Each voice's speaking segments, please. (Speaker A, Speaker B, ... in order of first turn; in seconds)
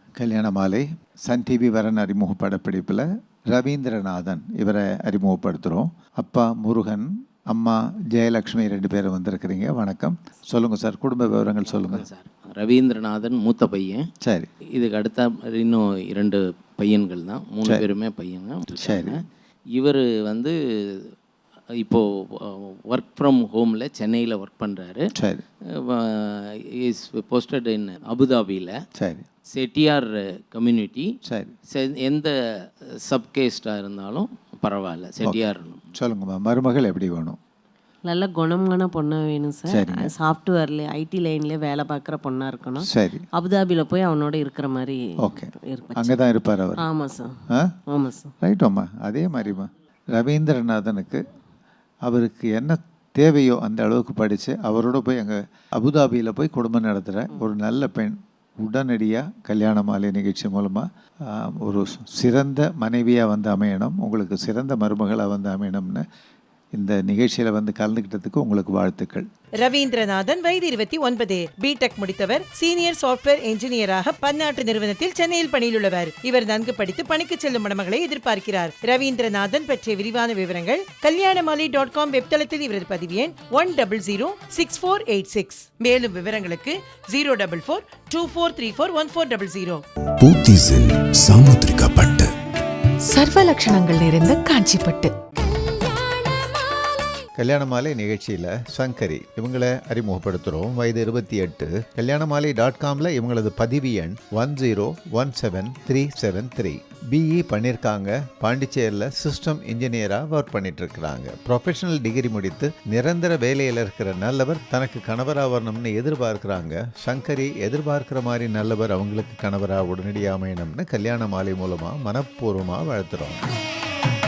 Speaker A: 0.2-12.1, 14.2-14.5, 18.8-19.2, 25.2-25.4, 29.0-29.2, 36.0-37.4, 39.7-40.1, 42.9-43.3, 45.2-46.8, 48.4-51.3, 52.0-66.0, 66.8-69.3, 97.4-123.4
Speaker B: 11.6-14.1, 14.7-21.1, 21.8-25.1, 25.8-28.8, 29.5-31.1, 31.7-32.3, 33.0-35.8
Speaker C: 38.0-42.9, 43.4-45.0, 45.7-46.1, 46.8-47.3, 47.9-48.3
Speaker D: 69.6-89.8
Speaker E: 90.2-92.3
Speaker F: 93.1-95.1